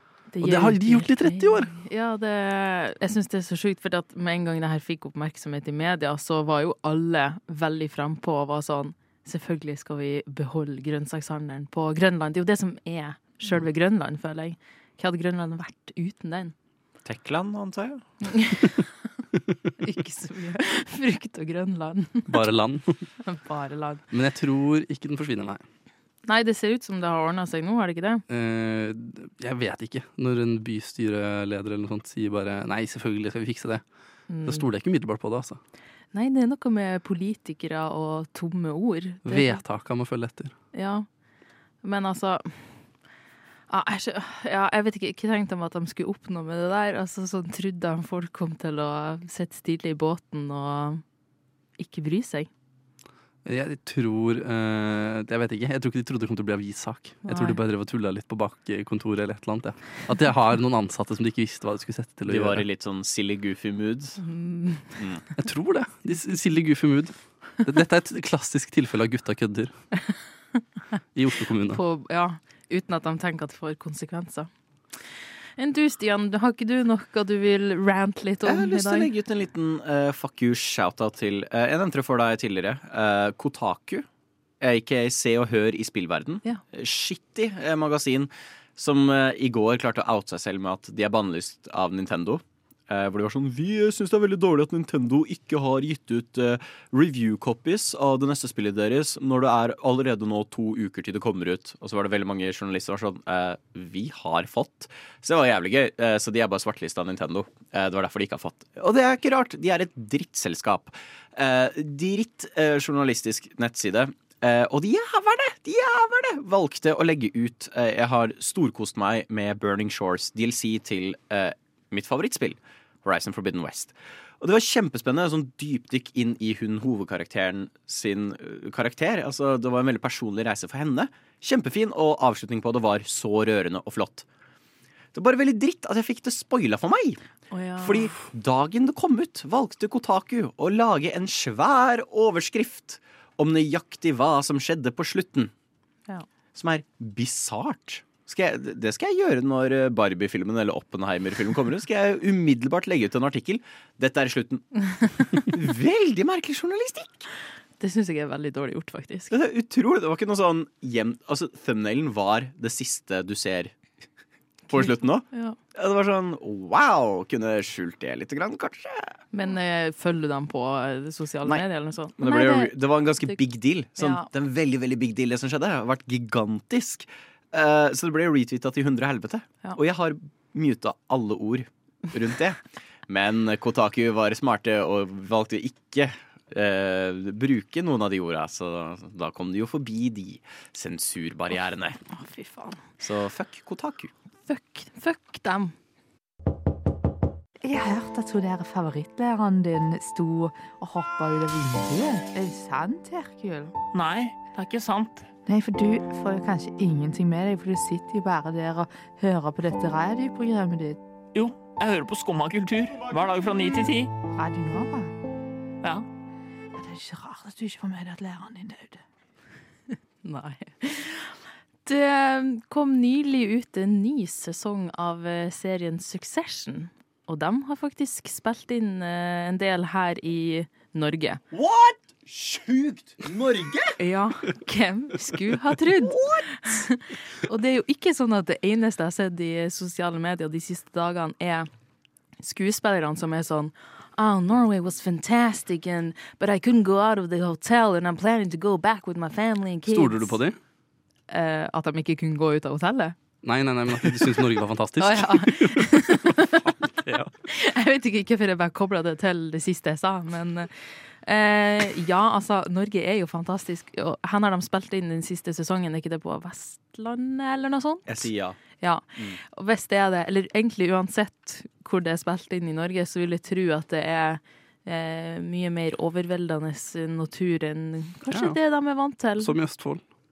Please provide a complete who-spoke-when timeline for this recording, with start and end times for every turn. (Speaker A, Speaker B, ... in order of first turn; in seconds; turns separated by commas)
Speaker A: 0.3-16.5, Speaker B: 0.4-1.7, Speaker C: 17.0-18.0, Speaker A: 18.2-18.8, Speaker A: 19.8-22.3, Speaker B: 22.3-23.1, Speaker A: 23.2-24.0, Speaker B: 24.1-25.6, Speaker A: 26.2-28.2, Speaker B: 28.3-33.8, Speaker A: 34.3-34.6, Speaker B: 34.4-35.6, Speaker A: 36.1-39.6, Speaker B: 39.2-40.5, Speaker A: 40.7-41.1, Speaker A: 41.8-42.8, Speaker A: 43.7-51.0, Speaker A: 51.8-52.5, Speaker B: 53.5-62.6, Speaker A: 57.2-57.6, Speaker C: 62.3-64.2, Speaker A: 64.2-65.0, Speaker C: 65.0-65.2, Speaker B: 65.4-69.7, Speaker B: 71.1-71.8, Speaker A: 71.7-75.1, Speaker A: 75.6-79.1, Speaker C: 78.4-84.1, Speaker C: 84.6-134.2, Speaker C: 135.1-137.2, Speaker A: 137.5-138.1, Speaker C: 137.8-145.5, Speaker C: 146.5-157.3, Speaker A: 157.8-159.3, Speaker C: 159.3-163.8, Speaker A: 164.7-165.6, Speaker C: 164.7-169.2, Speaker A: 169.3-173.4, Speaker C: 172.2-192.0, Speaker A: 174.0-174.3, Speaker A: 192.1-192.8, Speaker C: 193.0-194.1, Speaker A: 194.5-195.7, Speaker D: 197.6-203.7, Speaker E: 203.9-205.3, Speaker D: 205.4-211.0, Speaker E: 211.3-214.2, Speaker D: 214.3-215.1, Speaker D: 216.8-219.0, Speaker A: 220.2-231.4, Speaker C: 231.5-234.0, Speaker A: 234.0-241.7, Speaker C: 235.8-236.6, Speaker A: 242.4-250.4, Speaker B: 249.9-250.6, Speaker A: 251.3-253.2, Speaker B: 253.4-256.3, Speaker A: 255.0-256.7, Speaker B: 256.9-257.3, Speaker A: 257.4-279.5, Speaker C: 268.1-268.6, Speaker B: 278.3-278.6, Speaker B: 279.4-280.0